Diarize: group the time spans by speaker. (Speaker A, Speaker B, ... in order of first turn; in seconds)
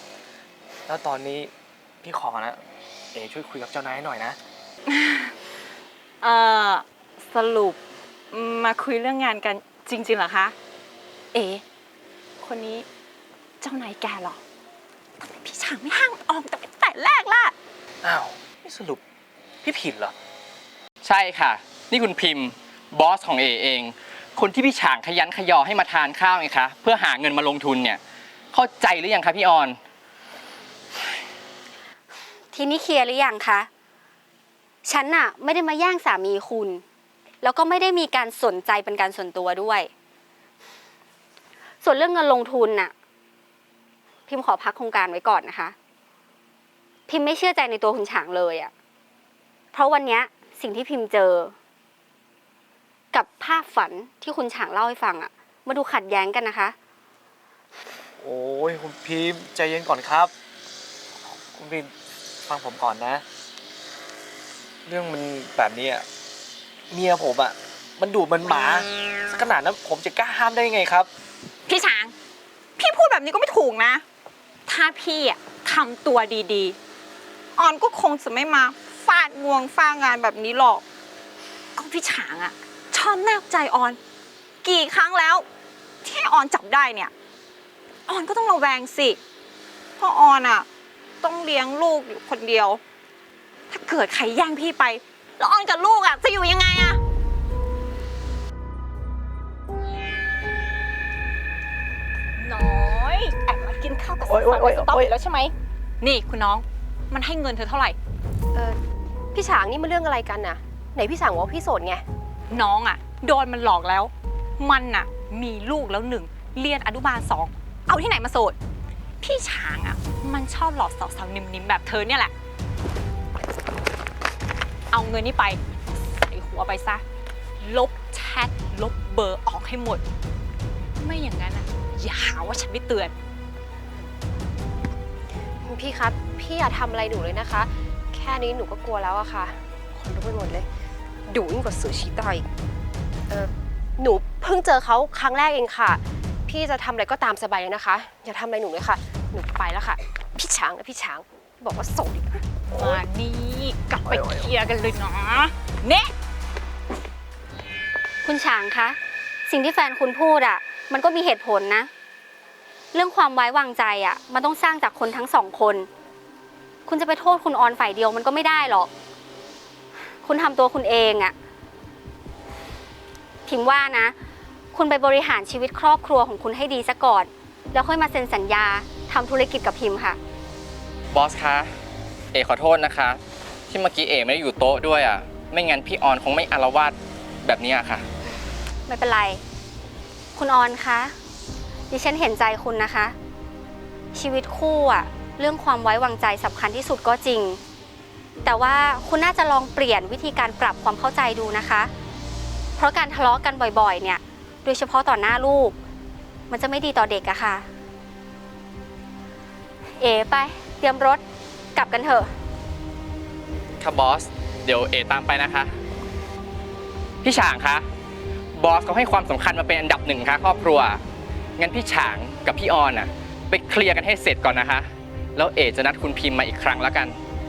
Speaker A: 0.9-1.5, 2.0-2.6, 3.1-4.4, 18.0-19.0, 19.6-20.1, 58.2-60.3, 61.3-61.9, 62.5-63.2, 64.8-66.0, 66.9-71.1, 104.3-105.1
Speaker B: 4.9-5.3, 6.2-7.8, 8.3-10.5, 11.3-11.6, 12.4-12.8, 13.6-14.4, 15.2-17.5, 71.7-72.1, 72.8-74.0, 74.7-76.8, 77.6-80.8, 81.8-84.0, 84.6-85.5, 86.0-87.1, 88.1-89.2, 90.0-90.7, 91.2-92.8, 93.7-97.0, 102.4-108.0, 112.5-118.5, 119.2-122.3, 124.9-127.0, 127.6-130.0, 131.0-133.1, 152.7-156.1
Speaker C: 21.0-28.0, 28.5-29.8, 181.1-181.7, 182.3-188.1, 213.8-215.8, 217.2-217.8, 218.5-221.0, 221.6-227.2
Speaker D: 32.5-33.7, 34.8-36.8, 37.4-39.9, 41.8-42.9, 44.3-45.7, 47.1-48.7, 49.7-51.5, 53.1-56.7, 158.2-159.0, 159.5-161.9, 162.9-165.9, 166.8-168.9, 170.2-171.3, 173.4-174.1, 174.7-180.2, 188.9-189.4, 190.3-191.1, 191.9-193.1, 194.1-197.6, 198.4-201.9, 202.8-205.8, 206.5-207.7, 210.0-211.2, 211.8-212.3
Speaker E: 109.3-112.0, 135.6-140.7, 141.3-142.5, 143.3-153.0